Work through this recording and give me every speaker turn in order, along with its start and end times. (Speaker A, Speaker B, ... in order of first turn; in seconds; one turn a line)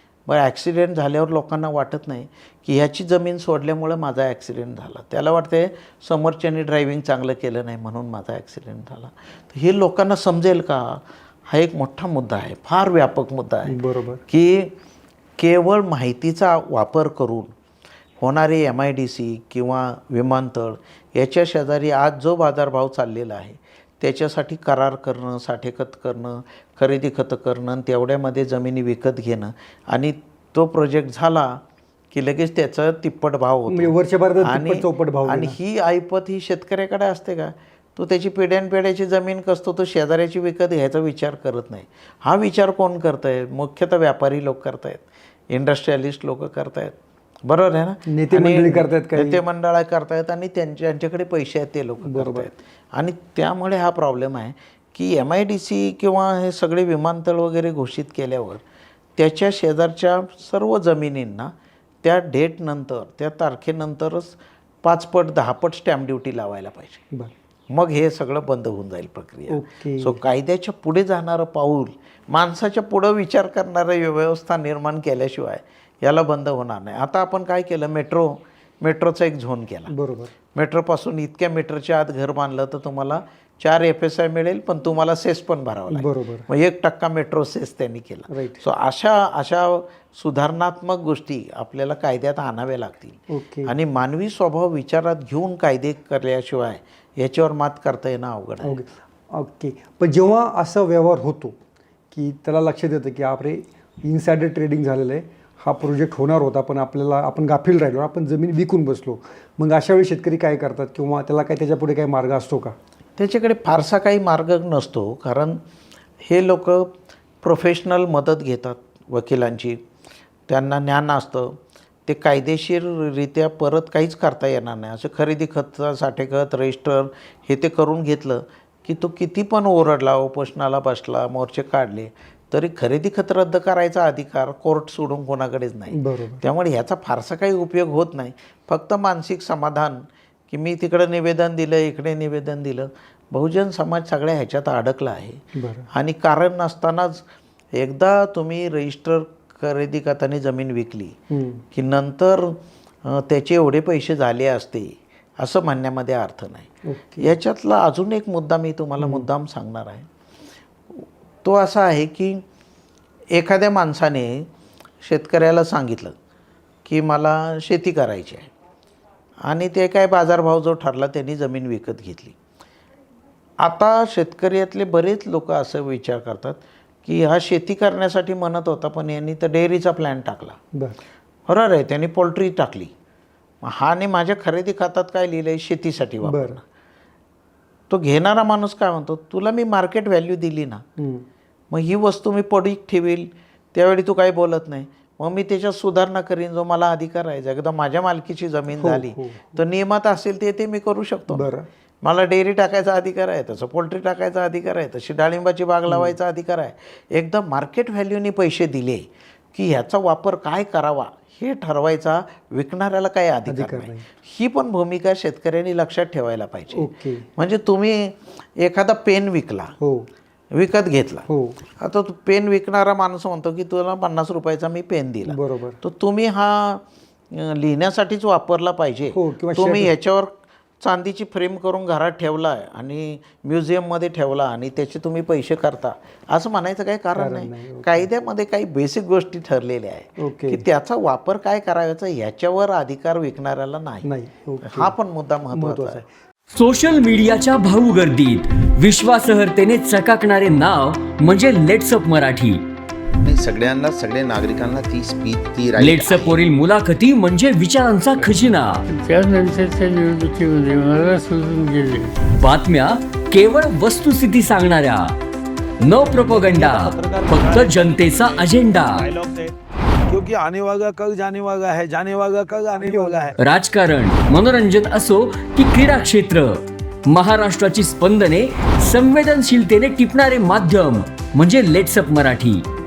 Speaker A: 0.3-13.7
Speaker B: 13.7-14.2
Speaker A: 14.3-14.7
Speaker A: 15.4-17.5
Speaker A: 18.2-31.6
Speaker A: 32.1-47.0
Speaker B: 33.7-35.6
Speaker A: 47.5-58.6
Speaker B: 48.0-49.4
Speaker B: 52.0-52.5
Speaker A: 59.2-67.0
Speaker A: 67.7-79.9
Speaker B: 69.5-70.2
Speaker B: 79.9-80.3
Speaker A: 80.5-98.7
Speaker B: 85.9-86.5
Speaker B: 88.3-88.6
Speaker B: 93.3-93.8
Speaker B: 98.6-101.6
Speaker B: 102.1-112.8
Speaker A: 113.2-115.6
Speaker A: 116.2-116.9
Speaker A: 117.4-119.8
Speaker A: 120.5-145.4
Speaker B: 135.9-136.4
Speaker B: 145.6-145.9
Speaker A: 145.9-151.2
Speaker B: 151.3-151.6
Speaker A: 151.7-156.7
Speaker B: 156.8-157.4
Speaker A: 157.2-160.1
Speaker B: 159.0-159.3
Speaker A: 161.0-162.4
Speaker A: 163.3-164.5
Speaker A: 165.0-166.2
Speaker A: 166.8-168.5
Speaker A: 169.5-172.3
Speaker A: 173.6-180.6
Speaker A: 181.5-182.9
Speaker A: 183.6-186.6
Speaker B: 186.2-186.6
Speaker A: 187.9-190.8
Speaker B: 191.0-191.3
Speaker A: 191.7-201.5
Speaker B: 198.8-199.6
Speaker B: 201.3-201.7
Speaker A: 202.0-219.7
Speaker B: 205.9-206.2
Speaker B: 213.5-214.1
Speaker B: 216.7-217.3
Speaker B: 219.8-220.1
Speaker A: 220.5-221.3
Speaker B: 221.3-221.6
Speaker A: 221.8-244.1
Speaker B: 225.3-225.8
Speaker B: 229.1-229.9
Speaker B: 237.2-238.1
Speaker B: 240.2-240.7
Speaker B: 244.0-244.9
Speaker A: 244.6-246.0
Speaker B: 245.5-246.1
Speaker C: 246.5-252.6
Speaker D: 253.2-256.4
Speaker C: 255.8-258.8
Speaker E: 258.9-262.1
Speaker C: 262.4-265.1
Speaker C: 265.8-269.1
Speaker F: 265.9-269.5
Speaker F: 270.1-273.3
Speaker B: 272.8-273.4
Speaker C: 273.4-282.6